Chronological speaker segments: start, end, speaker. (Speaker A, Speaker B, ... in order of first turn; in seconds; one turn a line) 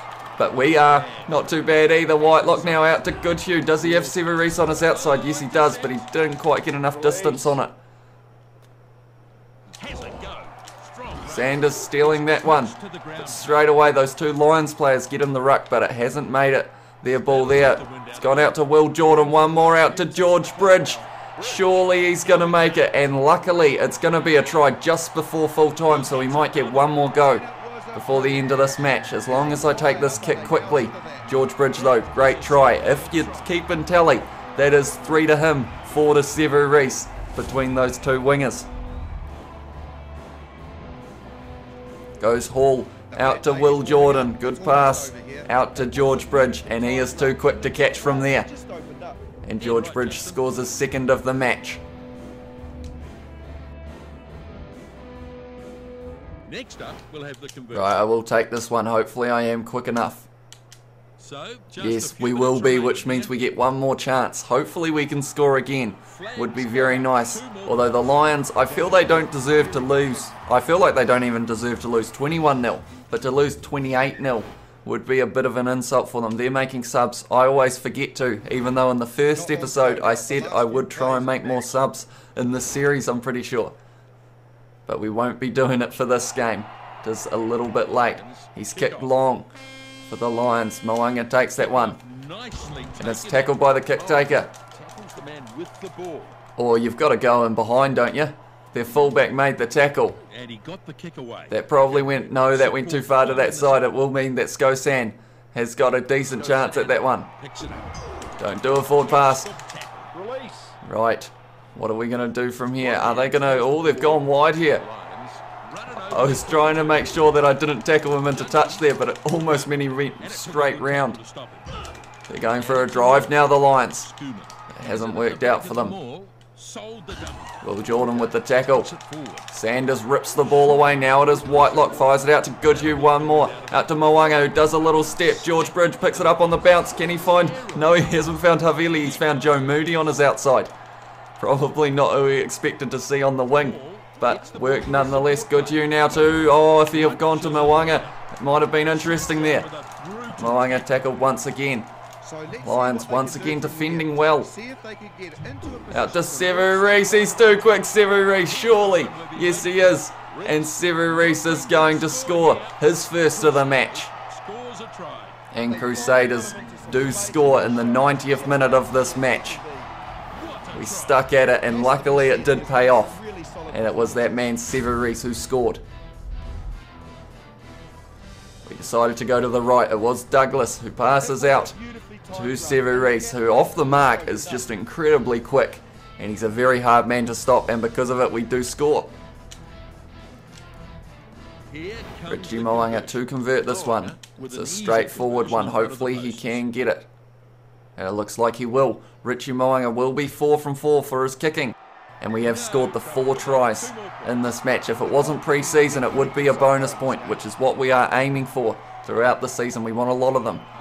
Speaker A: 0.4-7.7
Speaker B: 0.7-2.9
Speaker B: 3.8-6.1
Speaker C: 6.9-7.6
Speaker B: 9.8-13.7
Speaker A: 11.2-38.7
Speaker B: 17.2-18.5
Speaker C: 19.2-21.6
Speaker B: 26.0-26.3
Speaker C: 27.4-28.4
Speaker C: 29.2-31.2
Speaker B: 31.9-33.5
Speaker A: 42.2-48.5
Speaker C: 43.1-45.5
Speaker C: 46.0-49.2
Speaker A: 49.4-51.8
Speaker B: 49.6-50.5
Speaker B: 56.5-57.9
Speaker A: 57.7-60.3
Speaker B: 61.2-63.5
Speaker A: 61.8-83.7
Speaker B: 66.1-68.1
Speaker C: 68.7-70.2
Speaker C: 79.3-81.7
Speaker A: 84.8-89.5
Speaker B: 87.9-89.1
Speaker A: 90.1-92.0
Speaker B: 91.6-96.4
Speaker A: 93.0-94.5
Speaker A: 96.6-100.2
Speaker B: 100.3-103.9
Speaker A: 101.5-107.3
Speaker B: 106.3-107.9
Speaker A: 108.4-109.5
Speaker B: 108.8-110.1
Speaker C: 110.1-110.7
Speaker A: 110.8-114.8
Speaker B: 112.8-117.4
Speaker A: 115.9-121.2
Speaker B: 118.2-118.9
Speaker B: 120.2-121.8
Speaker A: 122.3-124.1
Speaker B: 122.5-123.4
Speaker B: 124.0-129.4
Speaker A: 124.7-126.0
Speaker A: 127.6-128.9
Speaker A: 129.5-140.7
Speaker B: 132.6-138.1
Speaker B: 139.1-139.4
Speaker A: 141.4-149.7
Speaker B: 143.5-148.1
Speaker B: 148.8-150.8
Speaker A: 150.3-151.9
Speaker C: 152.2-157.6
Speaker A: 152.6-154.5
Speaker A: 155.9-164.1
Speaker B: 158.4-165.4
Speaker A: 165.5-169.6
Speaker C: 165.7-169.9
Speaker B: 170.3-171.3
Speaker A: 170.7-175.8
Speaker C: 171.7-174.3
Speaker A: 178.6-181.8
Speaker C: 181.2-184.7
Speaker A: 182.3-189.1
Speaker B: 191.7-196.6
Speaker A: 192.3-197.1
Speaker A: 198.0-210.7
Speaker B: 202.4-204.3
Speaker C: 205.1-207.4